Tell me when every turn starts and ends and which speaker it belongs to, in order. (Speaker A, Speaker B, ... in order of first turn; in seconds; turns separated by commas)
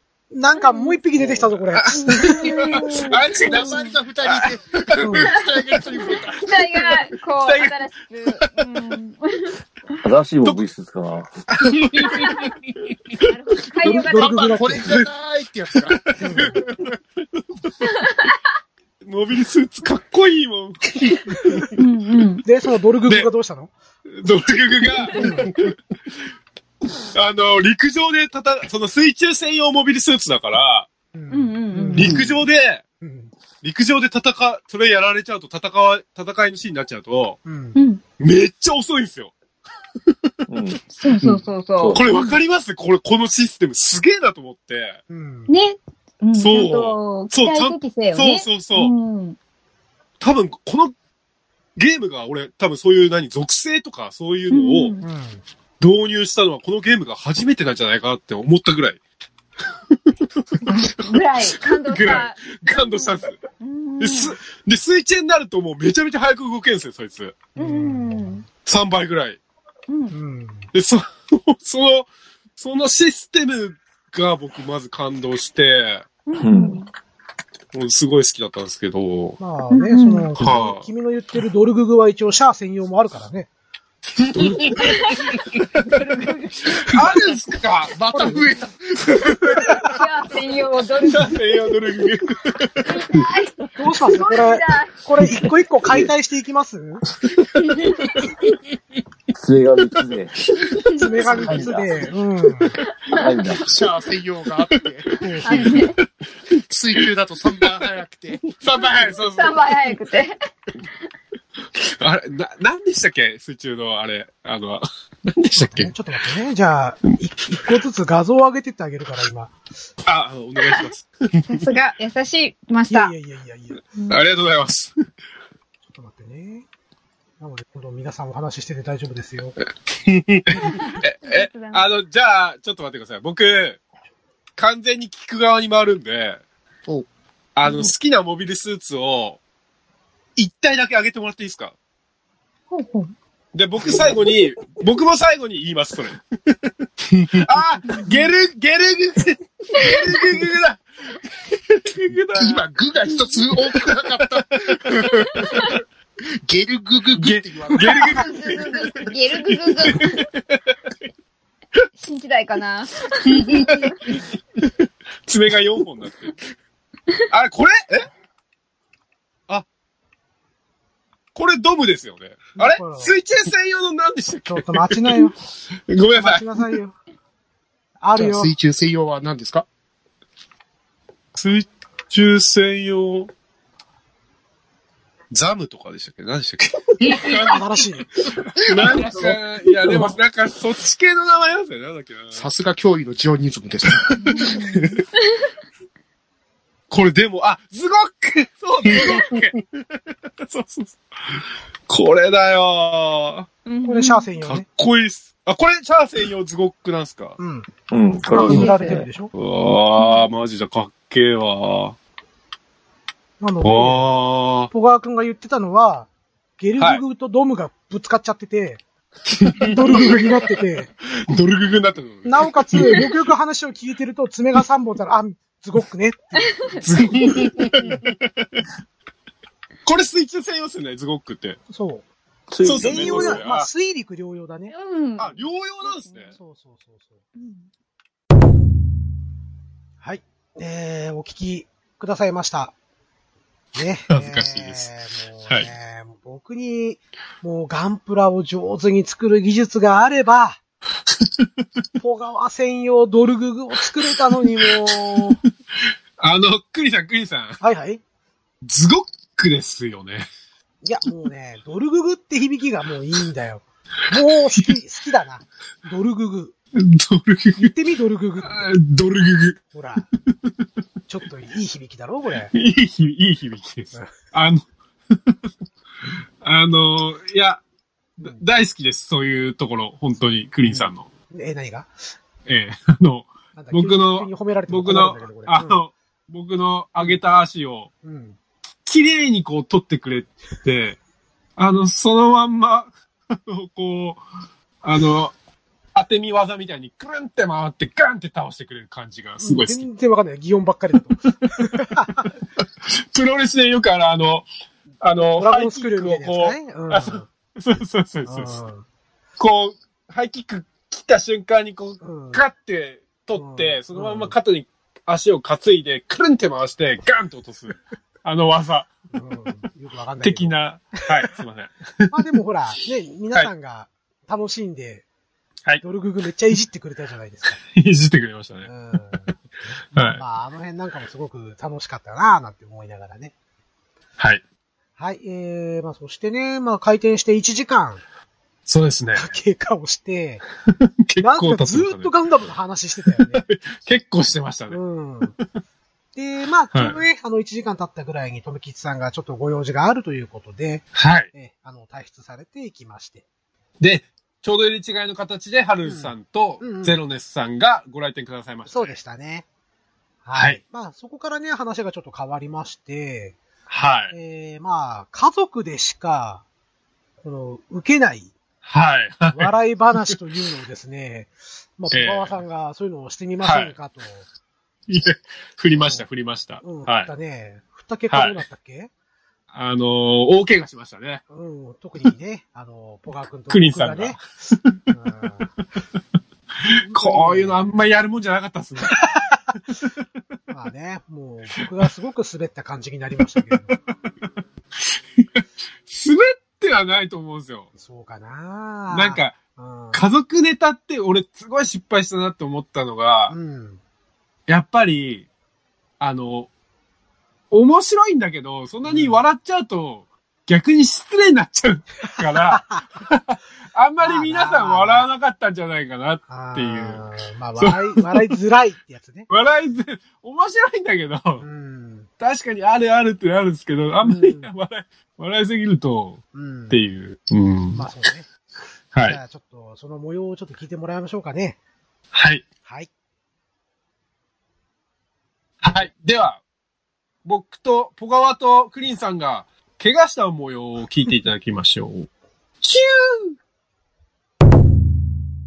Speaker A: 0.3-2.7, Speaker B: 0.6-1.0, Speaker C: 1.8-4.9, Speaker B: 1.9-3.9, Speaker D: 2.7-6.5, Speaker A: 5.0-5.3, Speaker B: 6.0-9.5, Speaker C: 7.4-7.7, Speaker E: 10.0-11.3, Speaker C: 11.5-13.3, Speaker B: 12.0-12.5, Speaker B: 13.2-14.6, Speaker A: 13.8-14.9, Speaker D: 14.0-16.6, Speaker C: 14.8-15.1, Speaker C: 16.1-16.9, Speaker A: 16.2-16.6, Speaker B: 17.8-18.4, Speaker C: 19.0-21.7, Speaker B: 21.8-22.4, Speaker A: 22.4-23.7, Speaker C: 24.1-25.7, Speaker B: 25.1-25.3, Speaker A: 25.1-25.5, Speaker C: 27.1-30.9, Speaker A: 31.1-32.2, Speaker B: 31.3-32.2, Speaker C: 31.9-32.8, Speaker A: 33.0-33.3, Speaker C: 33.6-37.4, Speaker A: 37.5-37.8, Speaker B: 37.7-38.0, Speaker C: 38.2-39.3, Speaker E: 40.5-42.0, Speaker B: 41.0-42.4, Speaker C: 41.9-45.0, Speaker A: 45.1-45.5, Speaker B: 45.5-49.4, Speaker C: 46.3-48.9, Speaker C: 50.2-50.9, Speaker C: 51.8-54.9, Speaker B: 54.5-55.0, Speaker A: 55.0-55.4, Speaker C: 55.8-59.0, Speaker C: 60.1-63.4, Speaker B: 60.7-64.4, Speaker C: 64.0-67.5, Speaker A: 67.5-68.4, Speaker B: 67.6-68.4, Speaker C: 68.6-69.4, Speaker B: 69.9-70.1, Speaker A: 70.1-70.6, Speaker C: 70.7-76.0, Speaker B: 76.2-76.9, Speaker E: 76.3-76.8, Speaker C: 77.7-79.4, Speaker A: 79.4-83.5, Speaker B: 79.7-80.3, Speaker C: 80.4-80.8, Speaker C: 84.2-85.2, Speaker A: 84.4-84.6, Speaker B: 84.7-87.0, Speaker C: 86.8-88.3, Speaker D: 87.0-89.4, Speaker A: 88.1-88.4, Speaker C: 89.1-89.6, Speaker B: 89.8-91.6, Speaker C: 91.0-93.2, Speaker B: 92.8-95.0, Speaker A: 93.8-97.0, Speaker C: 97.3-97.6, Speaker B: 97.7-98.3, Speaker E: 99.4-100.4, Speaker A: 100.9-102.7, Speaker E: 101.3-102.1, Speaker E: 103.1-103.6, Speaker D: 103.6-105.8, Speaker A: 105.2-105.7, Speaker B: 105.4-105.9, Speaker C: 105.5-106.0, Speaker D: 106.7-108.5, Speaker C: 108.5-110.0, Speaker B: 108.8-110.3, Speaker C: 111.8-115.9, Speaker A: 115.6-119.5, Speaker C: 120.0-121.6, Speaker B: 121.5-123.1, Speaker A: 122.9-123.8, Speaker C: 124.1-124.9, Speaker A: 125.9-126.6, Speaker A: 127.4-129.6, Speaker C: 130.4-133.8, Speaker B: 130.6-131.8, Speaker C: 134.6-136.4, Speaker C: 137.6-139.4, Speaker B: 137.6-137.9, Speaker C: 140.3-141.7, Speaker B: 142.7-143.1, Speaker C: 143.5-146.5, Speaker D: 143.8-144.2, Speaker D: 147.1-147.4, Speaker C: 147.3-152.7, Speaker B: 147.9-148.3, Speaker B: 149.7-150.0, Speaker D: 152.3-155.7, Speaker C: 153.7-155.6, Speaker D: 156.4-158.3, Speaker C: 157.2-160.8, Speaker B: 157.8-160.2, Speaker B: 162.0-164.1, Speaker C: 163.3-166.3, Speaker C: 167.3-168.1, Speaker C: 171.3-175.2, Speaker A: 172.6-173.1, Speaker A: 174.5-175.3, Speaker C: 175.9-176.6, Speaker A: 176.1-176.9, Speaker A: 178.0-178.5, Speaker D: 178.2-179.6, Speaker C: 181.3-183.3, Speaker C: 185.3-187.4, Speaker D: 187.0-187.5, Speaker B: 187.0-187.4, Speaker A: 187.4-188.1, Speaker C: 188.6-192.4, Speaker D: 188.6-190.1, Speaker D: 192.3-194.9, Speaker C: 194.1-194.6, Speaker B: 194.2-194.9, Speaker C: 196.9-199.8, Speaker C: 200.4-203.5, Speaker B: 203.7-204.3, Speaker A: 203.8-204.7, Speaker C: 204.5-207.4, Speaker A: 207.4-207.7, Speaker E: 207.9-209.1, Speaker A: 208.3-209.3, Speaker B: 208.5-209.0, Speaker C: 209.3-212.0, Speaker A: 213.4-214.0, Speaker C: 213.6-214.7, Speaker A: 214.7-216.1, Speaker A: 216.6-218.8, Speaker C: 219.3-220.2, Speaker A: 219.6-220.9, Speaker C: 221.1-223.1, Speaker A: 222.2-226.8, Speaker B: 226.4-226.8, Speaker C: 226.8-228.5, Speaker C: 229.8-231.6, Speaker A: 231.7-232.0, Speaker E: 232.5-233.4, Speaker C: 232.6-233.7, Speaker A: 232.8-234.7, Speaker B: 234.7-236.3, Speaker C: 235.2-236.3, Speaker A: 236.3-237.2, Speaker B: 237.4-237.7, Speaker A: 240.0-242.7, Speaker A: 243.7-250.6, Speaker C: 244.1-244.9, Speaker A: 252.0-255.4, Speaker C: 254.6-255.3, Speaker C: 256.2-257.6, Speaker A: 257.6-258.0, Speaker C: 258.6-260.3, Speaker A: 260.8-266.5, Speaker C: 266.8-267.7, Speaker A: 267.6-268.7, Speaker C: 268.4-269.6, Speaker A: 269.7-270.1, Speaker A: 271.1-272.5, Speaker C: 272.5-274.6, Speaker C: 276.4-277.6, Speaker C: 278.2-281.1, Speaker A: 280.6-281.9, Speaker C: 282.4-287.9, Speaker A: 283.6-285.8, Speaker A: 288.0-288.4, Speaker C: 288.9-291.0, Speaker C: 291.6-294.2, Speaker C: 294.8-295.3, Speaker C: 295.9-299.8, Speaker A: 299.4-302.3, Speaker C: 302.9-304.4, Speaker C: 305.0-308.6, Speaker A: 305.4-307.3, Speaker A: 308.3-308.8, Speaker C: 309.4-318.9, Speaker A: 312.0-312.4, Speaker A: 313.3-314.3, Speaker A: 319.1-320.5, Speaker C: 320.2-322.2, Speaker A: 322.1-325.0, Speaker A: 325.8-327.6, Speaker C: 327.6-328.7, Speaker A: 328.6-333.3, Speaker C: 329.9-330.2, Speaker A: 335.0-338.0, Speaker C: 338.6-339.3, Speaker A: 339.1-340.4, Speaker C: 341.1-342.1, Speaker A: 341.2-343.4, Speaker C: 343.1-344.8, Speaker A: 344.7-345.3, Speaker A: 346.1-353.2, Speaker C: 346.7-347.0, Speaker C: 350.9-351.3, Speaker C: 353.8-359.0, Speaker A: 355.8-357.0, Speaker A: 358.7-359.4, Speaker A: 360.2-363.4, Speaker C: 363.7-364.1, Speaker A: 364.1-366.4, Speaker A: 367.2-368.3, Speaker C: 368.6-369.5, Speaker A: 369.3-374.2, Speaker C: 371.9-372.4, Speaker C: 373.4-373.7, Speaker C: 374.9-377.1, Speaker A: 375.8-376.1, Speaker A: 376.6-378.9, Speaker C: 378.1-378.4, Speaker C: 379.5-381.2, Speaker A: 381.3-384.2, Speaker C: 383.5-384.8, Speaker A: 384.9-385.5, Speaker C: 386.6-389.1, Speaker A: 386.7-387.7, Speaker A: 388.9-389.5, Speaker A: 390.5-393.8, Speaker C: 395.2-397.7, Speaker A: 397.8-400.0, Speaker C: 398.9-399.4, Speaker C: 399.9-403.3, Speaker A: 403.3-403.8, Speaker C: 404.5-405.3, Speaker C: 406.0-406.5, Speaker C: 407.5-417.0, Speaker A: 408.8-409.2, Speaker A: 412.2-412.9, Speaker A: 414.0-415.1, Speaker A: 416.3-419.3, Speaker C: 417.6-418.3, Speaker C: 419.3-421.4, Speaker A: 421.4-422.1, Speaker C: 422.2-427.9, Speaker A: 424.0-424.5, Speaker A: 426.3-426.8, Speaker A: 427.7-428.3, Speaker C: 428.9-429.2, Speaker A: 429.0-431.6, Speaker C: 432.1-432.4, Speaker C: 435.6-436.4, Speaker A: 435.6-435.9, Speaker C: 437.2-442.1, Speaker C: 442.6-443.4